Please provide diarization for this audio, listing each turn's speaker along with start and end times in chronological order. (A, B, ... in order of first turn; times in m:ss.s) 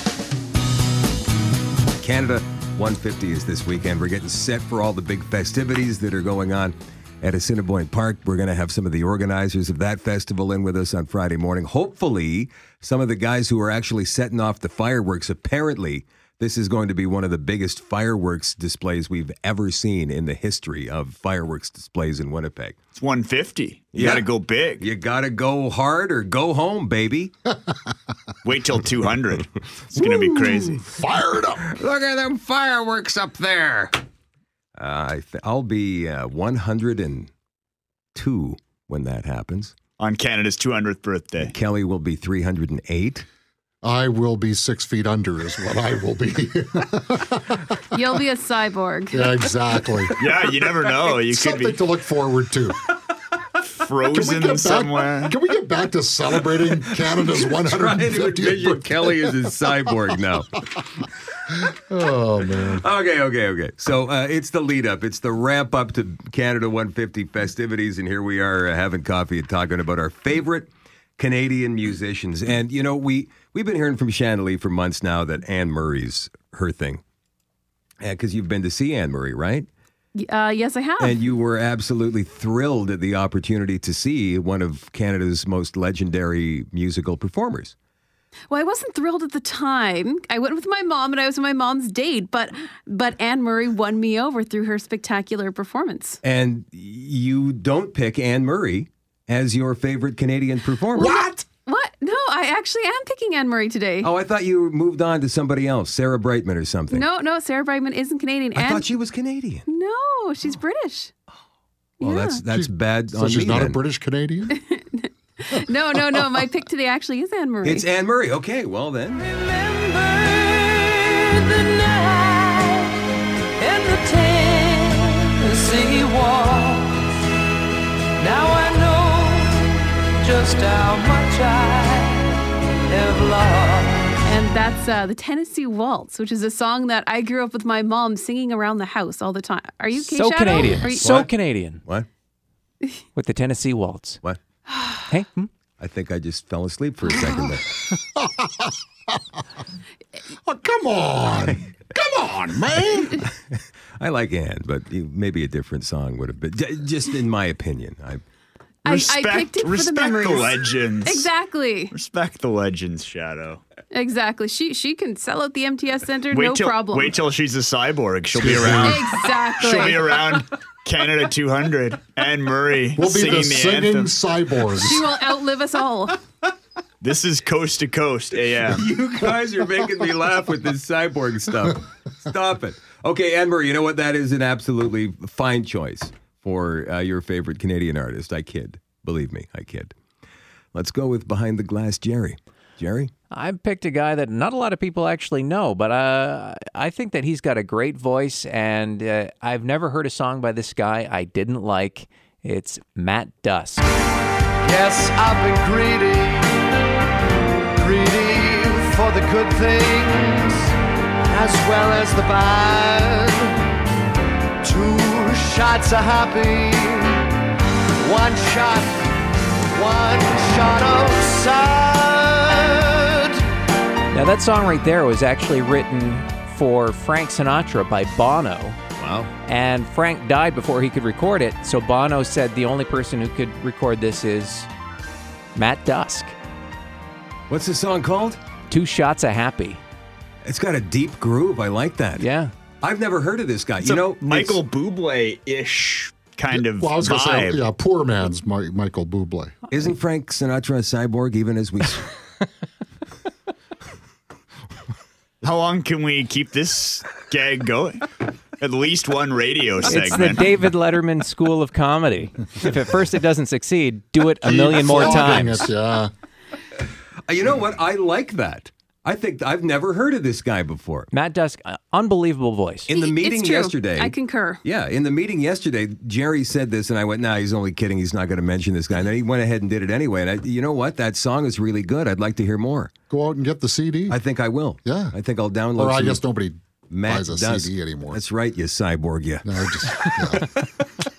0:02.0-0:22.8 A
0:23.0-0:24.8 B
0:23.9-0:27.4 A
0:28.4-0:30.8 B
0:30.0-0:31.6 C
0:31.6-0:34.0 A
0:34.8-0:37.3 A
0:38.2-0:39.8 A
0:40.0-0:41.5 B
0:41.4-0:43.3 A
0:43.8-0:47.6 C
0:47.9-0:49.3 D
0:49.1-0:50.2 C
0:50.2-0:51.8 B
0:51.1-0:52.8 C
0:53.8-0:55.4 B
0:54.1-0:59.1 C
0:56.8-1:00.6 A
1:01.7-1:02.8 C
1:02.6-1:17.0 A
1:18.0-1:19.7 A
1:20.2-1:21.2 D
1:21.0-1:27.8 A
1:28.5-1:36.2 D
1:36.2-1:41.2 A
1:41.0-1:44.1 D
1:41.0-1:41.4 C
1:44.0-1:47.1 A
1:46.9-1:48.9 D
1:48.6-1:49.6 A
1:49.7-1:51.1 D
1:52.0-1:52.4 D
1:52.0-1:53.8 A
1:52.5-1:54.5 C
1:54.5-1:57.8 D
1:57.6-1:59.3 A
1:59.3-2:03.0 E
2:03.6-2:07.0 E
2:08.2-2:12.4 E
2:12.9-2:14.1 E
2:14.2-2:21.2 D
2:20.0-2:21.8 F
2:21.0-2:21.3 A
2:23.2-2:24.2 F
2:24.7-2:25.0 D
2:25.1-2:25.5 F
2:25.8-2:27.7 A
2:27.9-2:28.8 C
2:30.4-2:33.3 C
2:33.2-2:38.2 A
2:38.8-2:41.3 B
2:38.8-2:41.9 D
2:41.9-2:43.6 B
2:43.9-2:47.2 D
2:46.3-2:54.1 B
2:48.4-2:49.0 C
2:48.6-2:50.0 D
2:53.0-2:55.1 C
2:54.7-2:56.2 D
2:57.0-2:58.9 B
2:58.6-3:09.9 A
3:10.7-3:13.1 A
3:13.3-3:23.8 F
3:24.6-3:26.5 E
3:27.8-3:30.7 E
3:31.3-3:33.6 E
3:34.6-3:37.2 E
3:38.0-3:39.0 E
3:39.7-3:43.3 E
3:44.1-3:48.8 F
3:49.0-3:49.3 A
3:49.5-3:54.7 F
3:55.6-3:56.4 F
3:57.5-3:58.4 A
3:58.7-3:59.8 F
4:00.4-4:02.3 A
4:02.2-4:02.5 F
4:02.8-4:04.6 A
4:03.8-4:07.6 B
4:06.5-4:09.5 C
4:09.7-4:12.2 A
4:15.4-4:20.4 B
4:19.8-4:25.7 F
4:24.4-4:26.1 C
4:27.3-4:31.1 A
4:31.1-4:32.9 F
4:32.9-4:42.9 A
4:32.9-4:34.6 D
4:43.1-4:44.2 C
4:44.1-4:46.2 A
4:44.8-4:45.2 C
4:45.8-4:48.2 C
4:46.9-4:50.1 A
4:49.5-4:50.5 C